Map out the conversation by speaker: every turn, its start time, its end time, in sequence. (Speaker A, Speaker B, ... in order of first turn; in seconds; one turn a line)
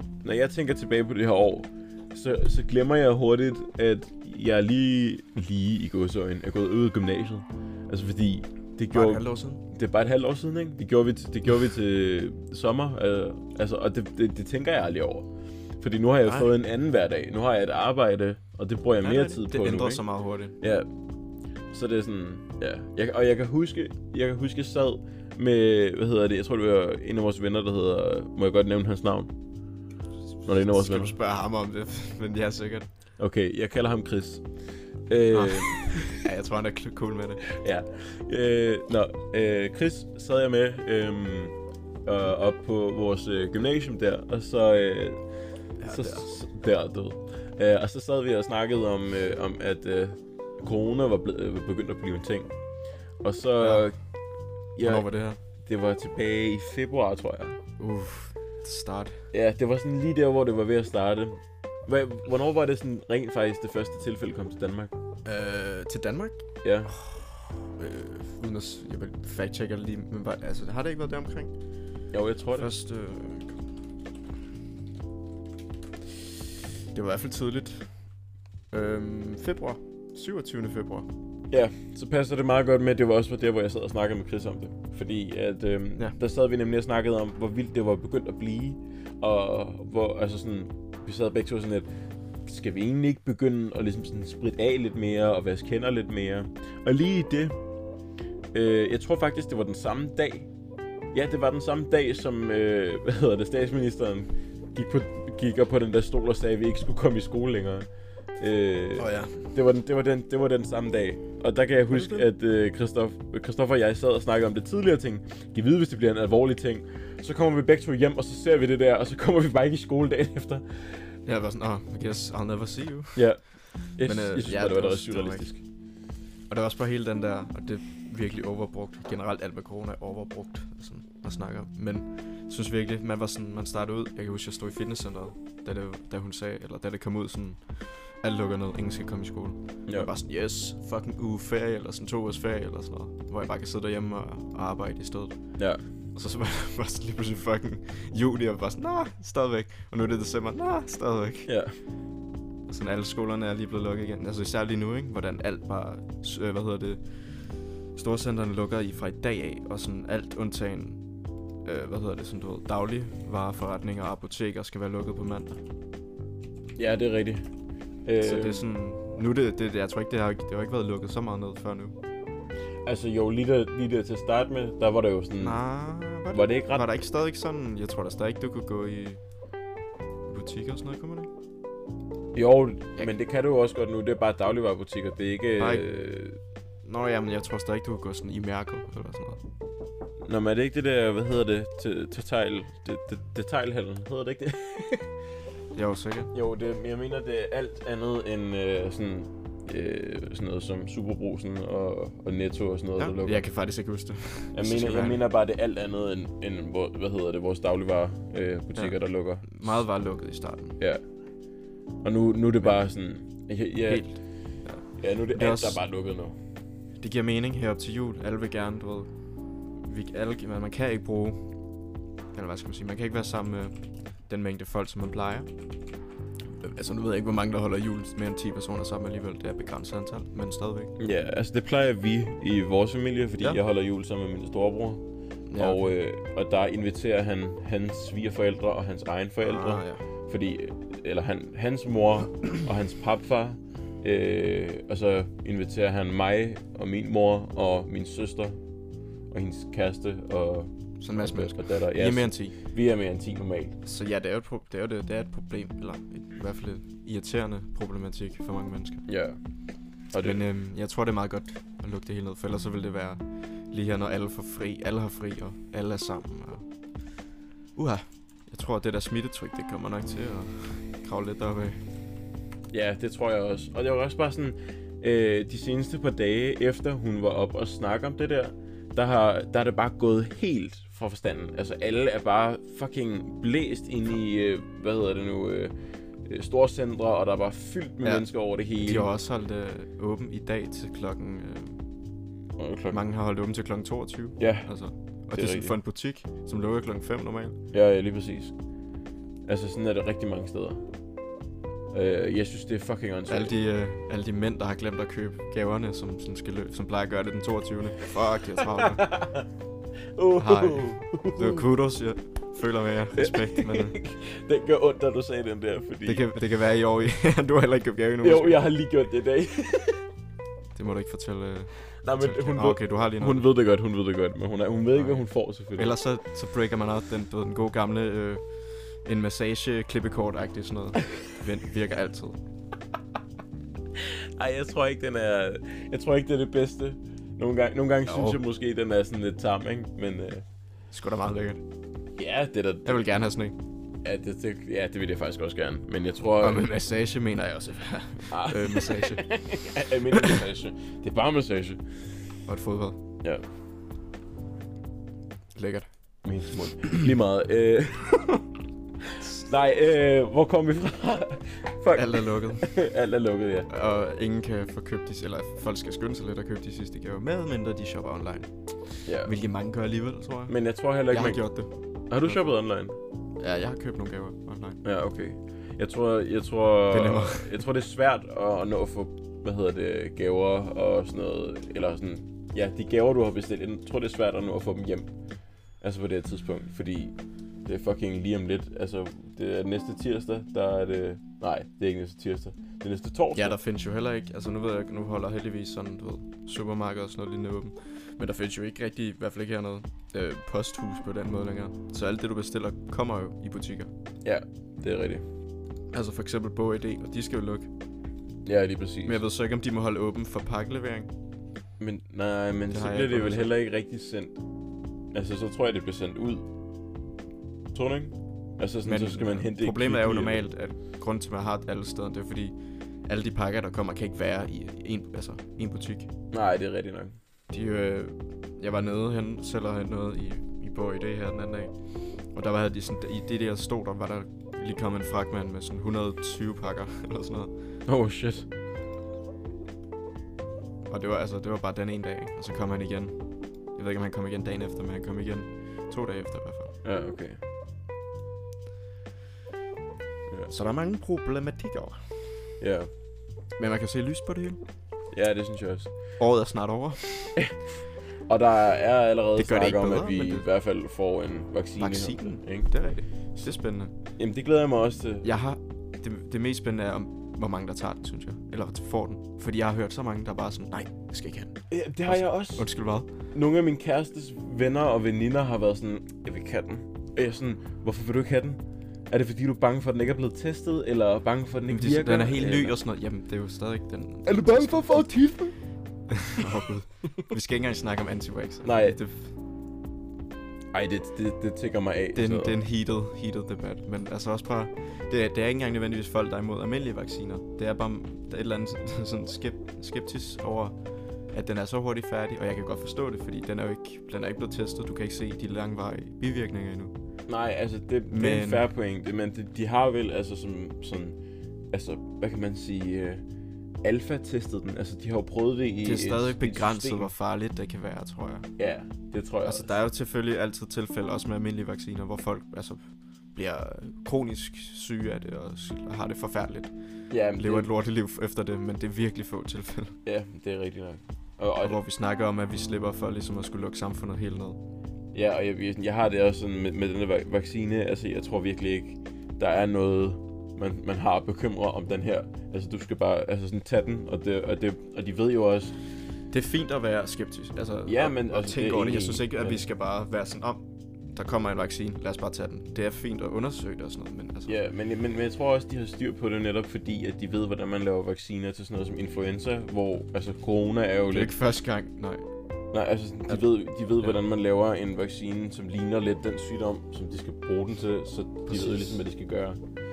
Speaker A: 0.2-15.3
Speaker B: 8.9-9.6
Speaker A: 15.8-20.0
Speaker B: 19.0-20.6
Speaker A: 20.6-20.9
Speaker A: 21.7-29.3
Speaker B: 30.4-32.9
Speaker A: 30.5-31.2
Speaker A: 33.2-34.4
Speaker A: 35.1-36.1
Speaker B: 35.3-37.5
Speaker A: 37.5-45.2
Speaker B: 45.8-46.3
Speaker A: 45.9-52.5
Speaker A: 53.2-54.0
Speaker B: 53.6-53.9
Speaker A: 54.8-55.1
Speaker B: 54.8-55.4
Speaker A: 55.6-57.6
Speaker B: 57.8-59.2
Speaker A: 59.3-64.9
Speaker B: 65.2-71.5
Speaker A: 66.6-67.0
Speaker A: 72.1-72.7
Speaker B: 72.5-73.6
Speaker B: 76.9-77.9
Speaker B: 78.7-81.1
Speaker A: 81.5-91.9
Speaker A: 92.5-97.6
Speaker A: 98.5-100.5
Speaker A: 101.1-107.9
Speaker A: 108.4-121.0
Speaker B: 109.0-109.5
Speaker B: 111.9-112.3
Speaker B: 121.3-125.5
Speaker A: 123.2-125.6
Speaker B: 126.5-145.4
Speaker A: 145.6-145.8
Speaker B: 146.1-151.5
Speaker A: 151.5-151.8
Speaker B: 152.7-157.4
Speaker B: 157.9-161.0
Speaker B: 161.7-165.6
Speaker A: 166.8-167.5
Speaker A: 168.1-168.7
Speaker B: 168.2-172.0
Speaker A: 172.8-175.6
Speaker B: 175.4-179.2
Speaker A: 176.3-176.9
Speaker B: 180.3-181.3
Speaker A: 182.3-186.4
Speaker B: 185.6-185.9
Speaker B: 186.8-189.4
Speaker A: 190.2-195.1
Speaker B: 195.8-196.3
Speaker A: 196.3-203.4
Speaker B: 203.0-205.2
Speaker A: 204.6-209.7
Speaker B: 208.8-210.8
Speaker A: 212.0-214.1
Speaker B: 213.9-215.8
Speaker A: 215.0-216.4
Speaker B: 217.0-219.1
Speaker B: 219.8-221.5
Speaker B: 222.3-225.5
Speaker B: 226.6-230.9
Speaker A: 231.0-235.0
Speaker B: 235.5-235.9
Speaker A: 235.6-248.6
Speaker B: 239.4-240.1
Speaker A: 249.3-253.8
Speaker B: 251.0-252.6
Speaker B: 253.8-259.1
Speaker A: 259.1-259.4
Speaker A: 260.1-260.4
Speaker B: 260.1-266.6
Speaker B: 267.8-271.8
Speaker A: 272.7-289.1
Speaker B: 288.8-291.8
Speaker A: 292.6-293.0
Speaker B: 292.9-297.6
Speaker A: 294.4-294.7
Speaker A: 295.3-295.8
Speaker A: 297.7-298.5
Speaker A: 299.5-300.8
Speaker A: 301.9-303.5
Speaker B: 303.3-309.1
Speaker A: 308.6-309.5
Speaker A: 310.2-311.7
Speaker B: 310.4-314.0
Speaker A: 313.2-316.3
Speaker B: 316.1-318.6
Speaker A: 318.2-320.1
Speaker B: 320.8-323.5
Speaker A: 322.0-326.0
Speaker B: 324.9-325.2
Speaker B: 325.8-328.4
Speaker B: 329.0-332.4
Speaker A: 333.9-340.4
Speaker B: 338.1-338.4
Speaker B: 340.9-341.6
Speaker A: 342.2-343.0
Speaker B: 342.9-343.6
Speaker A: 344.0-346.7
Speaker B: 346.4-349.4
Speaker A: 348.3-351.8
Speaker B: 350.1-350.4
Speaker B: 352.5-353.0
Speaker B: 355.6-355.9
Speaker A: 356.2-358.3
Speaker A: 359.1-363.7
Speaker B: 361.9-362.7
Speaker B: 363.7-370.6
Speaker A: 369.1-369.4
Speaker A: 370.5-371.4
Speaker B: 371.1-371.7
Speaker A: 372.1-373.0
Speaker B: 373.4-374.8
Speaker A: 374.8-385.1
Speaker B: 376.9-377.6
Speaker A: 385.8-393.6
Speaker B: 393.4-403.9
Speaker A: 404.2-405.2
Speaker B: 405.9-407.7
Speaker A: 408.4-409.2
Speaker B: 409.1-411.1
Speaker A: 411.8-414.4
Speaker B: 412.7-413.5
Speaker A: 415.1-416.4
Speaker A: 417.7-420.5
Speaker B: 418.9-422.6
Speaker B: 423.1-426.1
Speaker A: 426.3-427.1
Speaker B: 427.5-431.7
Speaker B: 432.3-437.5
Speaker A: 437.9-438.5
Speaker B: 440.9-443.2
Speaker B: 443.7-446.8
Speaker A: 446.8-447.4
Speaker B: 450.5-452.2
Speaker A: 452.6-452.9
Speaker B: 453.6-454.6
Speaker A: 455.1-455.9
Speaker B: 456.2-457.4
Speaker A: 458.3-462.7
Speaker B: 459.4-460.5
Speaker B: 461.8-463.9
Speaker A: 464.2-465.3
Speaker B: 465.2-473.1
Speaker A: 471.7-472.7
Speaker A: 473.3-482.8
Speaker B: 481.7-485.2
Speaker A: 484.3-485.6
Speaker B: 486.1-489.3
Speaker A: 488.6-489.0
Speaker A: 490.7-492.6
Speaker B: 492.1-500.8
Speaker B: 501.3-506.9
Speaker A: 507.3-511.2
Speaker B: 508.1-508.7
Speaker A: 511.7-513.2
Speaker A: 513.8-517.1
Speaker B: 515.8-518.5
Speaker A: 518.6-519.8
Speaker B: 519.4-526.7
Speaker A: 527.1-527.7
Speaker B: 527.4-530.0
Speaker A: 530.1-531.8
Speaker B: 531.6-534.6
Speaker A: 535.1-545.7
Speaker B: 546.3-554.5
Speaker A: 547.9-549.6
Speaker A: 554.5-561.3
Speaker B: 561.1-562.3
Speaker A: 562.7-569.6
Speaker B: 568.5-569.0